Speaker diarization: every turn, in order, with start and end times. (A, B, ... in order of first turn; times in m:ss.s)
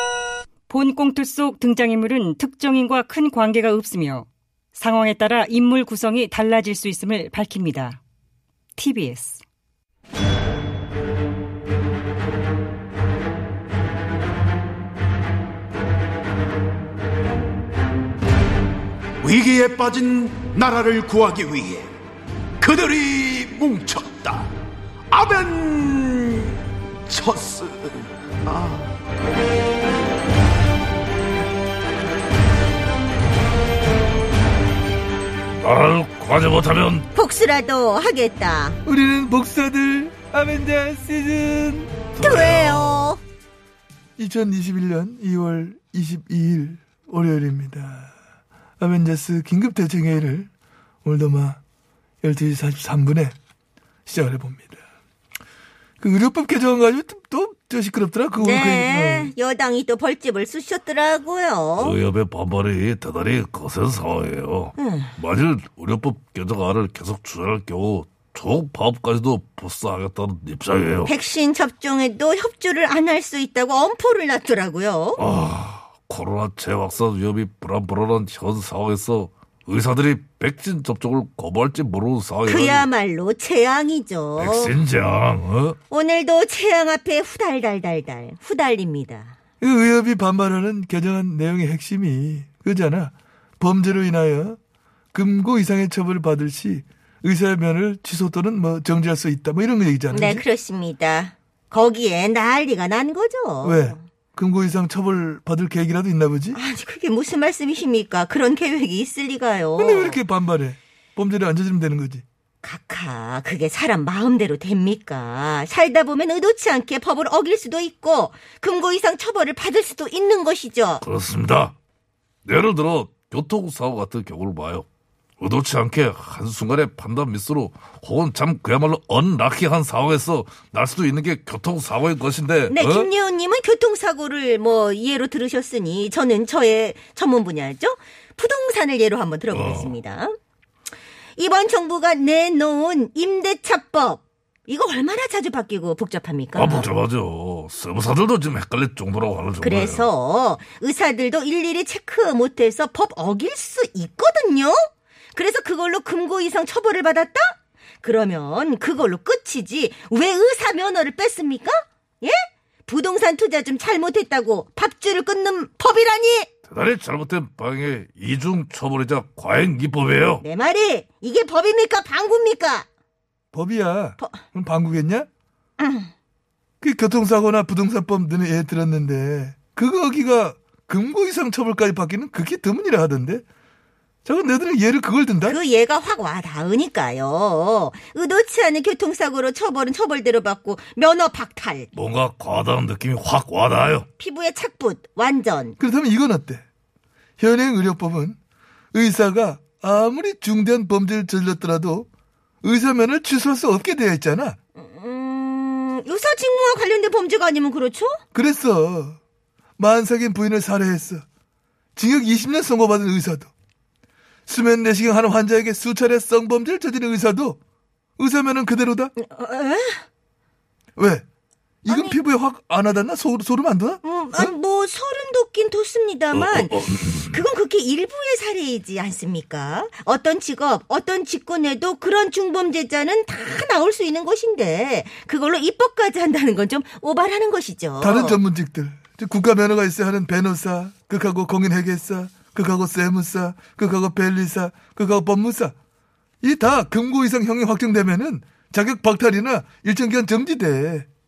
0:00.7-0:08.0 A
0:08.8-0:09.4 A
0:19.2-0:21.9 B
0:22.6-0:24.4 B
0:25.1-0:26.4 B
0:27.1-0:27.9 B
0:28.5-0:28.8 B
0:35.6-0:37.1 C
0:37.1-0:38.8 D
0:38.8-0:41.9 E
0:42.2-0:43.2 C
0:42.2-0:43.2 D
0:44.2-0:48.1 E
0:48.8-0:50.5 E
0:51.0-0:51.6 E
0:52.2-0:53.3 E
0:54.1-0:54.8 E
0:56.0-0:59.3 E
0:58.4-1:02.0 D
1:01.8-1:11.1 C
1:04.8-1:05.2 D
1:11.0-1:15.2 D
1:15.2-1:22.9 C
1:22.4-1:24.8 D
1:24.4-1:25.8 C
1:25.9-1:29.3 D
1:29.6-1:34.6 E
1:35.1-1:40.4 E
1:40.1-1:44.0 D
1:43.6-1:46.6 E
1:46.5-1:50.2 D
1:49.8-1:52.2 E
1:52.6-2:01.0 D
2:01.0-2:01.8 C
2:02.4-2:04.8 C
2:05.4-2:13.1 C
2:12.7-2:20.3 D
2:19.5-2:19.9 C
2:21.4-2:26.9 D
2:26.6-2:30.1 C
2:29.6-2:34.8 D
2:35.3-2:46.5 D
2:46.7-2:50.4 C
2:50.4-2:52.9 D
2:53.5-2:55.3 E
2:55.8-2:56.1 D
2:56.8-3:03.4 E
3:04.2-3:05.6 E
3:05.4-3:11.9 D
3:11.9-3:14.1 C
3:14.2-3:15.8 D
3:15.8-3:16.6 E
3:17.4-3:18.4 E
3:18.9-3:22.1 E
3:22.6-3:24.6 E
3:24.8-3:28.2 D
3:28.3-3:29.2 E
3:29.8-3:31.2 E
3:32.0-3:33.5 E
3:34.5-3:37.6 E
3:38.2-3:39.1 E
3:39.2-3:40.0 D
3:41.0-3:41.2 E
3:41.8-3:44.5 E
3:41.8-3:42.2 D
3:44.0-3:58.4 D
3:46.3-3:47.4 C
3:58.0-4:05.7 E
4:06.4-4:11.1 E